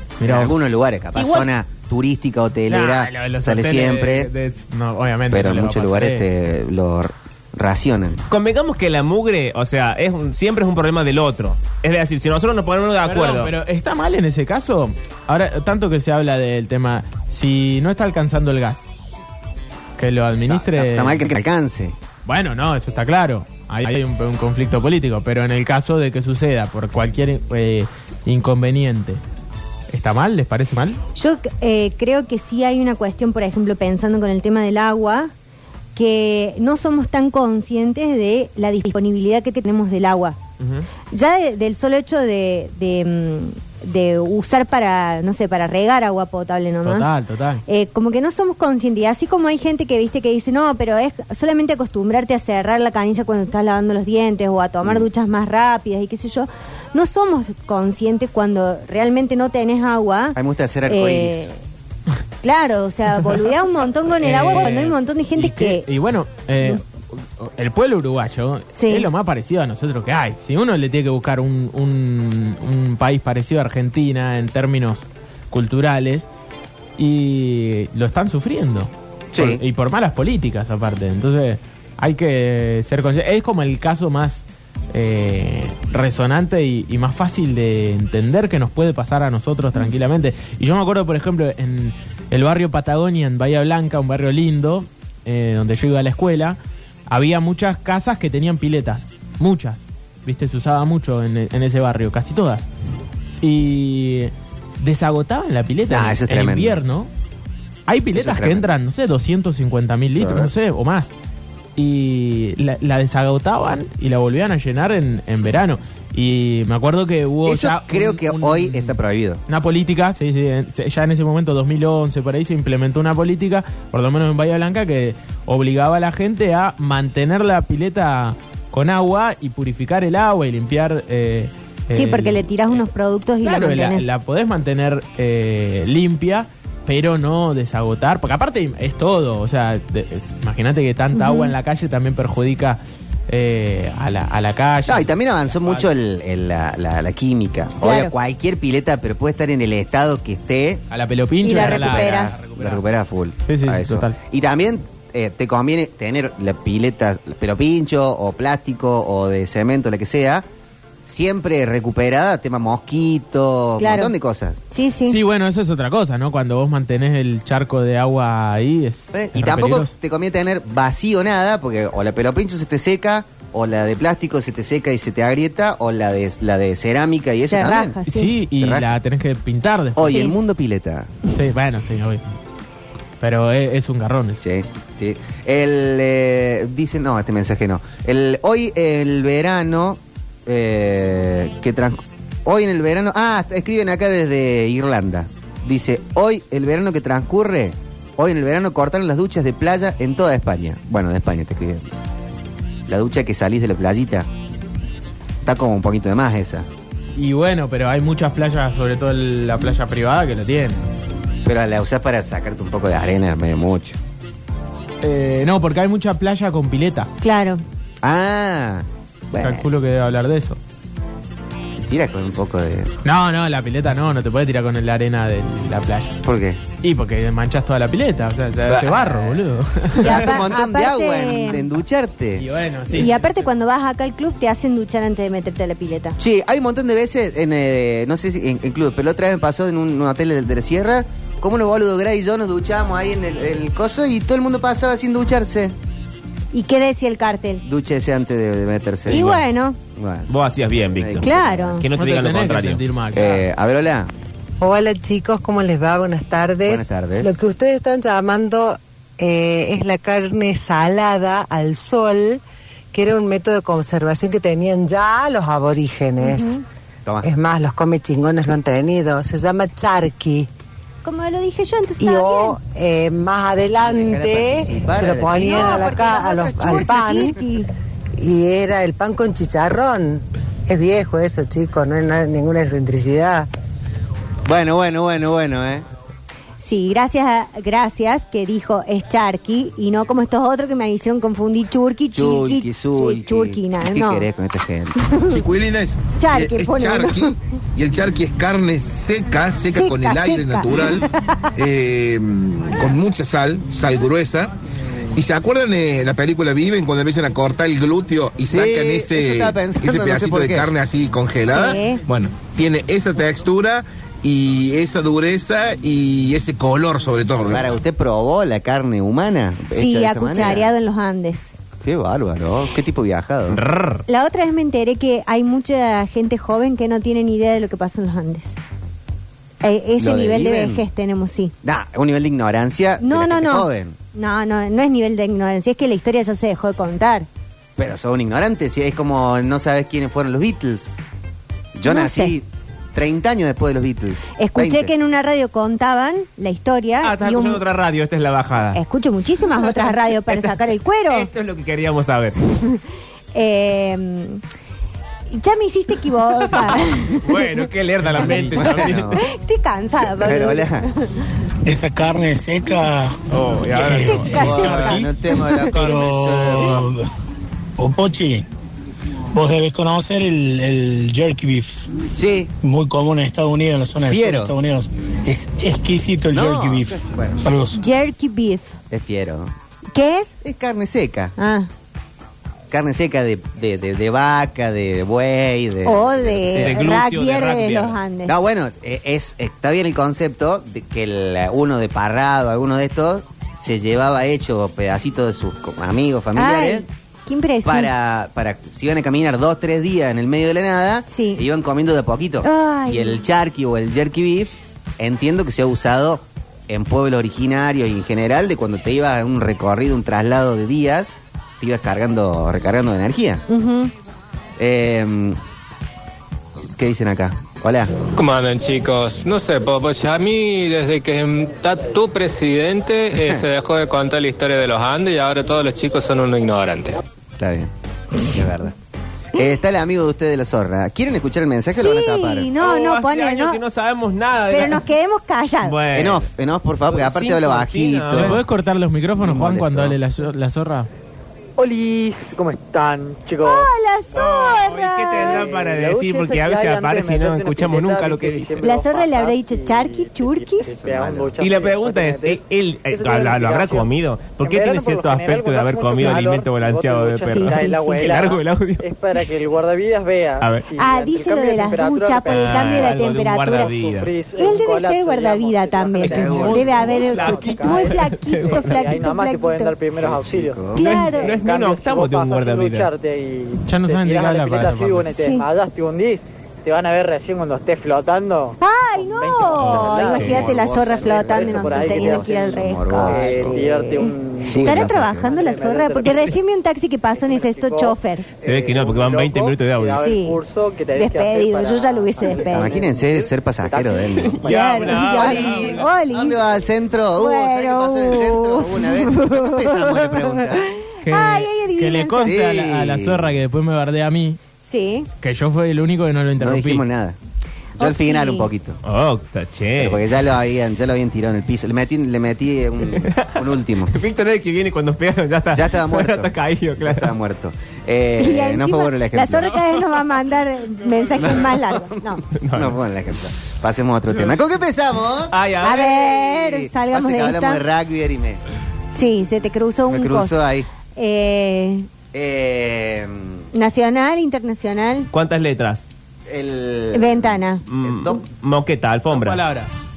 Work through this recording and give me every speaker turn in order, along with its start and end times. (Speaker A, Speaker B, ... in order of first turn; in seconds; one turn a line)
Speaker A: 0.2-0.5
Speaker B: 0.2-4.3
Speaker A: 1.1-1.4
Speaker A: 2.7-6.2
Speaker B: 5.3-8.2
Speaker C: 8.3-13.5
Speaker A: 13.0-18.9
Speaker A: 20.0-21.2
Speaker B: 20.5-21.9
Speaker A: 22.2-29.2
Speaker A: 29.9-31.0
Speaker D: 31.1-35.3
Speaker D: 35.9-40.4
Speaker C: 40.6-40.9
Speaker D: 41.1-47.1
Speaker A: 46.8-47.6
Speaker D: 47.7-61.5
Speaker B: 60.4-61.5
Speaker D: 62.4-65.8
Speaker A: 64.2-76.3
Speaker D: 68.7-69.1
Speaker A: 77.0-96.6
Speaker B: 79.3-79.6
Speaker A: 97.1-102.6
Speaker A: 103.4-107.1
Speaker B: 105.9-106.8
Speaker A: 107.9-111.1
Speaker B: 108.1-108.7
Speaker B: 110.2-110.5
Speaker A: 111.8-132.8
Speaker B: 117.4-119.4
Speaker D: 131.9-134.1
Speaker A: 133.4-145.8
Speaker D: 141.1-141.5
Speaker B: 144.9-150.8
Speaker D: 147.8-148.1
Speaker A: 150.9-152.8
Speaker D: 151.4-152.4
Speaker B: 151.4-160.4
Speaker A: 153.4-154.2
Speaker B: 161.0-164.6
Speaker D: 163.8-164.1
Speaker D: 164.7-165.2
Speaker A: 165.1-169.9
Speaker B: 169.1-178.0
Speaker D: 177.5-178.3
Speaker A: 178.1-180.1
Speaker B: 178.5-178.9
Speaker B: 179.9-181.1
Speaker D: 180.1-180.3
Speaker A: 181.3-182.2
Speaker A: 183.2-184.4
Speaker B: 184.4-201.9
Speaker B: 202.9-204.3
Speaker B: 205.4-206.7
Speaker A: 207.2-210.8
Speaker B: 211.4-214.0
Speaker A: 215.0-217.1
Speaker D: 217.2-217.6
Speaker B: 218.0-219.6
Speaker A: 219.4-220.6
Speaker B: 221.7-222.9
Speaker A: 223.0-226.2
Speaker B: 226.2-226.6
Speaker A: 226.8-230.3
Speaker B: 228.6-232.5
Speaker D: 230.0-231.7
Speaker A: 232.3-233.5
Speaker D: 232.9-236.2
Speaker B: 236.2-245.7
Speaker D: 246.5-247.6
Speaker B: 247.6-249.4
Speaker D: 249.1-249.8
Speaker C: 249.1-249.4
Speaker B: 249.9-250.3
Speaker C: 250.3-252.8
Speaker B: 250.9-251.8
Speaker D: 251.2-251.8
Speaker A: 251.9-253.4
Speaker B: 253.1-254.1
Speaker E: 254.6-262.4
Speaker B: 256.6-257.3
Speaker E: 262.9-266.6
Speaker D: 266.2-266.6
Speaker B: 267.0-267.3
Speaker E: 267.2-270.5
Speaker D: 271.0-272.6
Speaker E: 272.0-277.4
Speaker B: 273.8-277.1
Speaker D: 275.2-277.7
Speaker E: 278.2-283.5
Speaker B: 284.4-285.8
Speaker D: 286.6-294.2
Speaker B: 292.1-295.0
Speaker D: 295.0-295.4
Speaker F: 295.3-304.5
Speaker D: 296.1-297.4
Speaker D: 299.7-301.5
Speaker F: 305.1-317.7
Speaker B: 308.5-310.7
Speaker D: 311.5-312.0
Speaker B: 317.4-320.7
Speaker D: 319.7-321.6
Speaker B: 321.8-323.6
Speaker C: 323.5-324.1
Speaker D: 324.1-328.5
Speaker D: 329.6-331.5
Speaker B: 330.0-330.9
Speaker B: 331.6-334.0
Speaker D: 333.0-337.3
Speaker B: 337.8-340.9
Speaker B: 341.7-344.9
Speaker D: 341.9-342.3
Speaker D: 344.4-347.6
Speaker C: 347.0-348.8
Speaker D: 348.7-351.3
Speaker C: 349.6-352.4
Speaker D: 352.4-352.8
Speaker D: 353.3-354.4
Speaker D: 355.3-357.6
Speaker C: 356.5-359.2
Speaker A: 358.0-358.7
Speaker D: 358.2-361.1
Speaker B: 358.6-359.2
Speaker B: 360.2-360.9
Speaker G: 361.6-365.1
Speaker C: 363.3-364.6
Speaker D: 363.7-365.7
Speaker B: 363.7-366.9
Speaker G: 365.7-367.1
Speaker G: 367.8-368.5
Speaker G: 369.3-371.9
Speaker B: 372.1-372.5
Speaker G: 372.6-377.8
Speaker B: 374.1-374.5
Speaker B: 376.3-377.4
Speaker D: 377.7-378.7
Speaker B: 378.9-379.5
Speaker D: 379.9-380.3
Speaker B: 380.4-381.3
Speaker D: 381.4-381.7
Speaker B: 382.7-386.8
Speaker D: 385.8-388.3
Speaker C: 386.5-388.0
Speaker B: 388.2-396.9
Speaker D: 396.3-397.9
Speaker B: 397.6-413.4
Speaker D: 401.1-401.4
Speaker D: 402.4-403.2
Speaker D: 413.5-413.9
Speaker B: 414.6-415.4
Speaker B: 416.7-417.9
Speaker H: 418.1-426.9
Speaker B: 423.1-423.5
Speaker B: 427.4-427.7
Speaker B: 428.2-428.7
Speaker B: 429.3-432.5
Speaker D: 431.7-433.6
Speaker C: 432.6-434.8
Speaker D: 434.5-435.8
Speaker C: 435.6-436.2
Speaker B: 435.9-438.4
Speaker C: 436.9-438.4
Speaker A: 438.1-440.9
Speaker B: 439.0-440.0
Speaker I: 441.6-443.7
Speaker D: 443.4-445.5
Speaker C: 444.1-448.6
Speaker I: 445.1-486.4
Speaker D: 448.6-450.7
Speaker B: 450.8-451.3
Speaker C: 451.4-458.8
Speaker D: 457.3-458.1
Speaker C: 460.4-460.7
Speaker D: 460.8-463.7
Speaker C: 462.3-464.1
Speaker D: 464.4-469.7
Speaker C: 466.0-469.0
Speaker B: 466.1-466.6
Speaker B: 470.0-470.8
Speaker D: 470.7-471.4
Speaker C: 470.8-472.9
Speaker A: 473.6-475.1
Speaker D: 475.1-475.4
Speaker D: 478.6-488.3
Speaker C: 479.6-480.7
Speaker B: 480.1-483.6
Speaker B: 484.4-485.3
Speaker I: 487.1-495.7
Speaker C: 488.4-490.1
Speaker D: 490.0-490.4
Speaker D: 490.9-492.7
Speaker B: 492.5-494.4
Speaker C: 494.4-495.9
Speaker D: 494.4-496.4
Speaker B: 495.1-500.7
Speaker D: 497.2-502.3
Speaker A: 501.0-504.4
Speaker B: 502.2-503.4
Speaker D: 504.6-505.1
Speaker A: 505.2-506.8
Speaker B: 506.4-507.2
Speaker B: 507.7-508.8
Speaker D: 507.8-508.5
Speaker C: 508.8-510.0
Speaker B: 509.8-514.0
Speaker C: 512.9-517.1
Speaker B: 515.5-519.6
Speaker D: 518.2-522.2
Speaker B: 521.1-528.4
Speaker C: 522.3-522.8
Speaker C: 525.3-526.0
Speaker D: 525.6-527.6
Speaker D: 528.9-530.4
Speaker B: 529.8-530.7
Speaker D: 530.9-531.9
Speaker B: 532.1-533.5
Speaker D: 533.5-535.1
Speaker C: 535.1-535.9
Speaker B: 536.3-538.2
Speaker D: 536.9-537.6
Speaker C: 537.7-539.4
Speaker A: 539.1-539.7